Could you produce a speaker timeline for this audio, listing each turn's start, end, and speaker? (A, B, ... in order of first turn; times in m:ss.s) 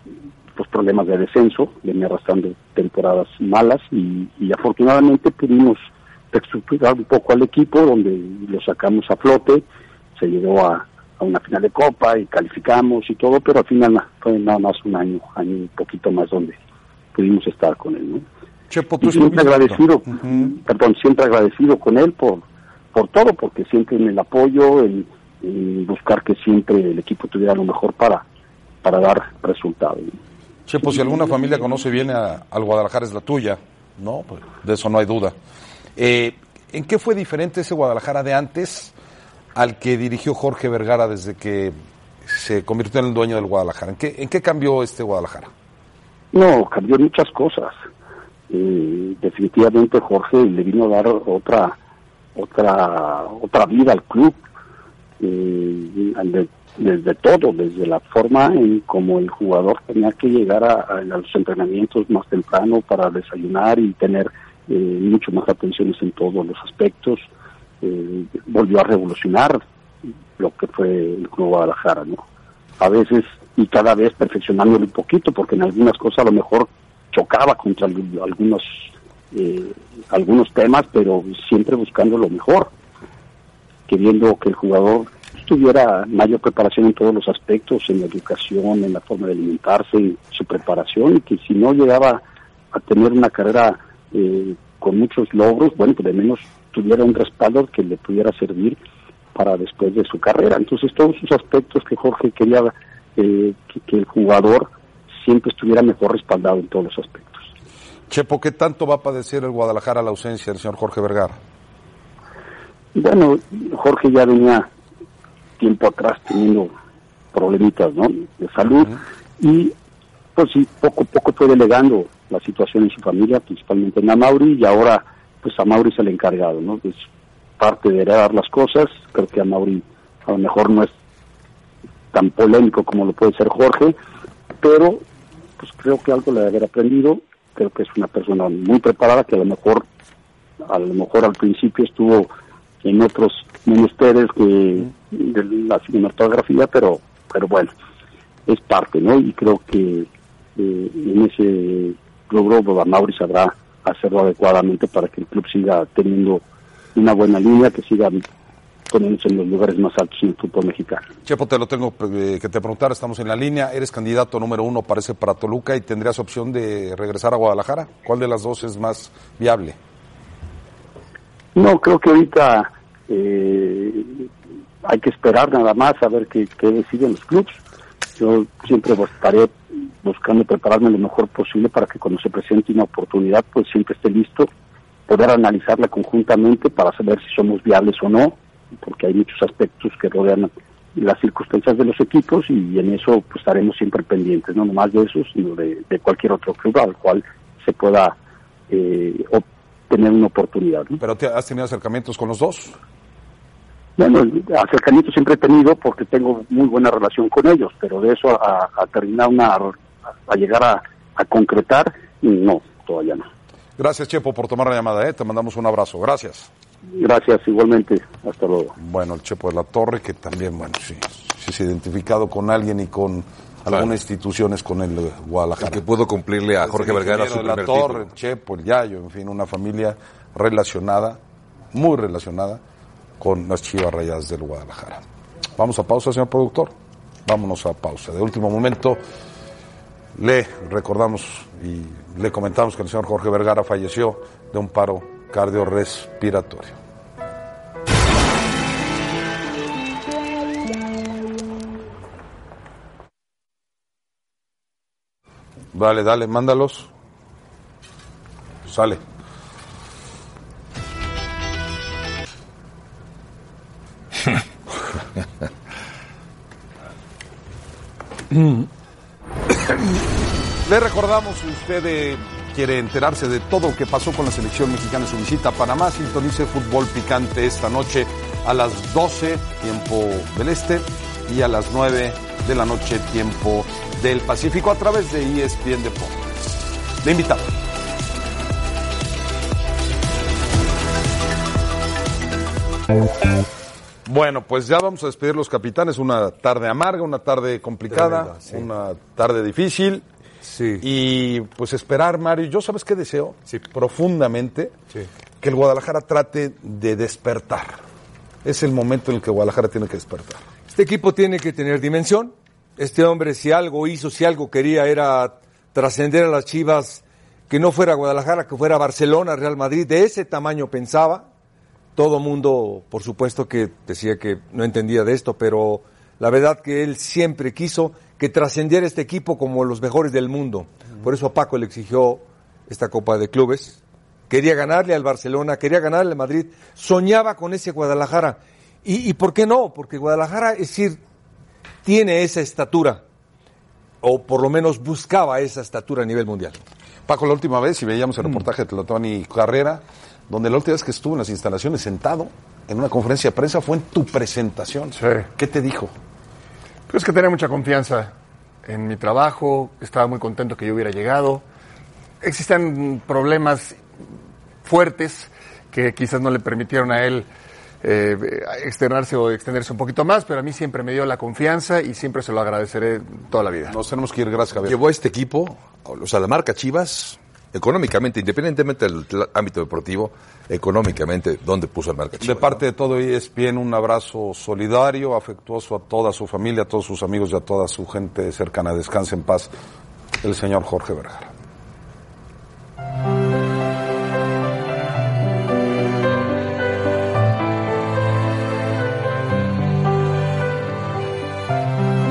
0:00.6-0:09.6 A
0:10.2-0:16.6 A
0:17.1-0:18.2 A
0:19.0-0:22.4 A
0:20.2-0:20.4 B
0:22.9-0:28.2 A
0:28.8-0:30.2 A
0:30.7-0:35.4 B
0:36.0-0:38.9 B
0:39.6-0:45.5 B
0:46.3-0:47.8 A
0:48.5-0:51.8 A
0:52.4-0:54.4 A
0:55.2-1:07.3 A
1:07.8-1:09.6 A
1:10.4-1:12.2 A
1:12.8-1:22.7 A
1:23.9-1:38.8 A
1:39.4-1:47.5 A
1:48.1-1:51.4 B
1:53.0-1:54.7 A
1:55.6-1:56.7 A
1:57.3-1:59.7 A
2:00.4-2:07.0 A
2:07.6-2:10.9 A
2:12.1-2:14.0 A
2:14.6-2:15.0 A
2:15.6-2:19.8 A
2:20.7-2:22.3 A
2:22.8-2:27.7 A
2:28.5-2:36.4 A
2:37.0-2:38.2 A
2:38.9-2:41.1 A
2:41.2-2:49.8 B
2:51.6-2:54.3 A
2:54.8-2:57.6 A
2:58.2-3:04.5 A
3:05.1-3:18.2 A
3:18.7-3:21.0 A
3:21.0-3:22.8 B
3:24.0-3:29.7 A
3:30.3-3:33.3 A
3:33.8-3:36.5 B
3:36.9-3:38.7 A
3:38.8-3:45.8 B
3:45.6-3:48.0 C
3:46.6-3:51.2 B
3:51.7-3:52.6 B
3:53.2-3:55.0 B
3:55.6-3:56.7 B
3:57.2-3:59.0 B
4:00.2-4:06.8 B
4:15.7-4:16.9 B
4:18.6-4:19.0 B
4:30.6-4:47.5 B
4:54.1-5:00.0 B
4:57.9-4:58.6 D
5:00.4-5:00.8 D
5:00.8-5:04.8 B
5:05.4-5:07.8 B
5:08.4-5:10.4 B
5:10.7-5:21.3 D
5:22.0-5:41.0 D
5:41.8-5:43.0 D
5:44.0-5:46.6 D
5:47.1-5:55.9 B
5:55.0-5:55.3 E
5:56.9-5:58.1 E
5:58.6-6:01.4 E
6:02.2-6:03.8 E
6:04.6-6:07.3 E
6:07.8-6:13.8 E
6:13.7-6:14.8 B
6:14.6-6:22.6 C
6:22.2-6:29.5 B
6:30.2-6:31.3 B